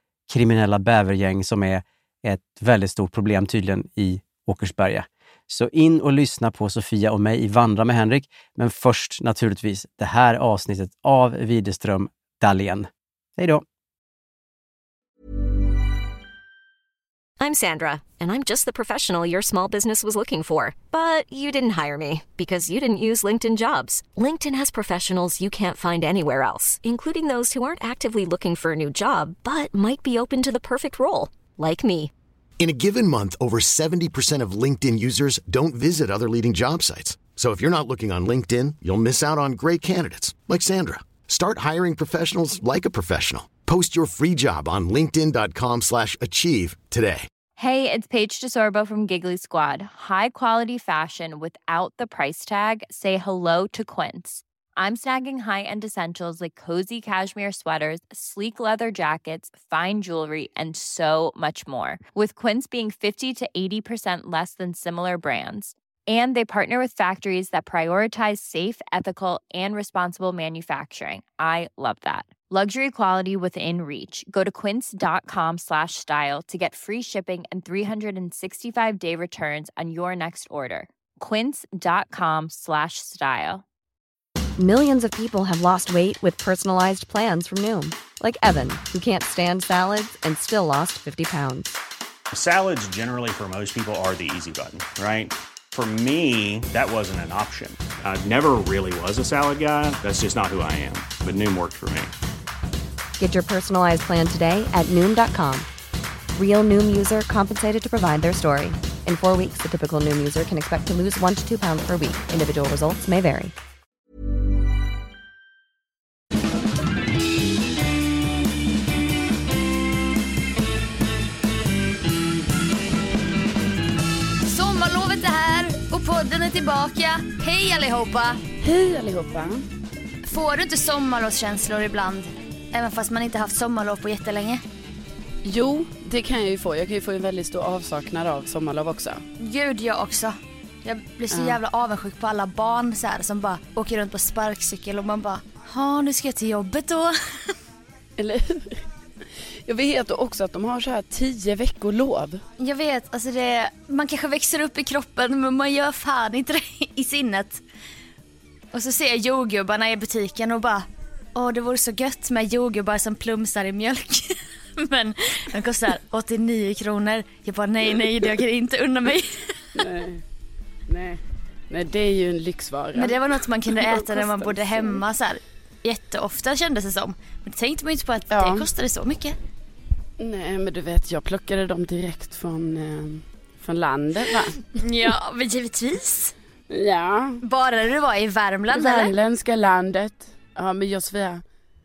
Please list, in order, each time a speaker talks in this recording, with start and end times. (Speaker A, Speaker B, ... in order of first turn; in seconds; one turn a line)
Speaker A: 0.3-13.6
Speaker B: 17.4-32.1
Speaker C: 32.6-47.3
Speaker D: 47.6-83.6
Speaker E: 84.6-91.7
Speaker F: 92.3-102.1
Speaker E: 103.2-105.7
Speaker E: 106.3-113.5
Speaker G: 124.4-128.4
Speaker H: 128.6-129.7
Speaker G: 130.2-134.6
Speaker H: 135.4-139.2
Speaker G: 139.4-147.5
Speaker H: 141.3-141.6
Speaker H: 148.2-148.9
Speaker H: 149.7-152.4
Speaker G: 152.6-157.6
Speaker G: 158.7-169.8
Speaker H: 169.8-170.2
Speaker H: 170.9-175.0
Speaker G: 172.9-179.4
Speaker H: 178.3-178.7
Speaker H: 180.2-184.6
Speaker G: 184.7-186.3
Speaker H: 186.7-187.4
Speaker G: 187.4-189.1
Speaker H: 188.7-191.4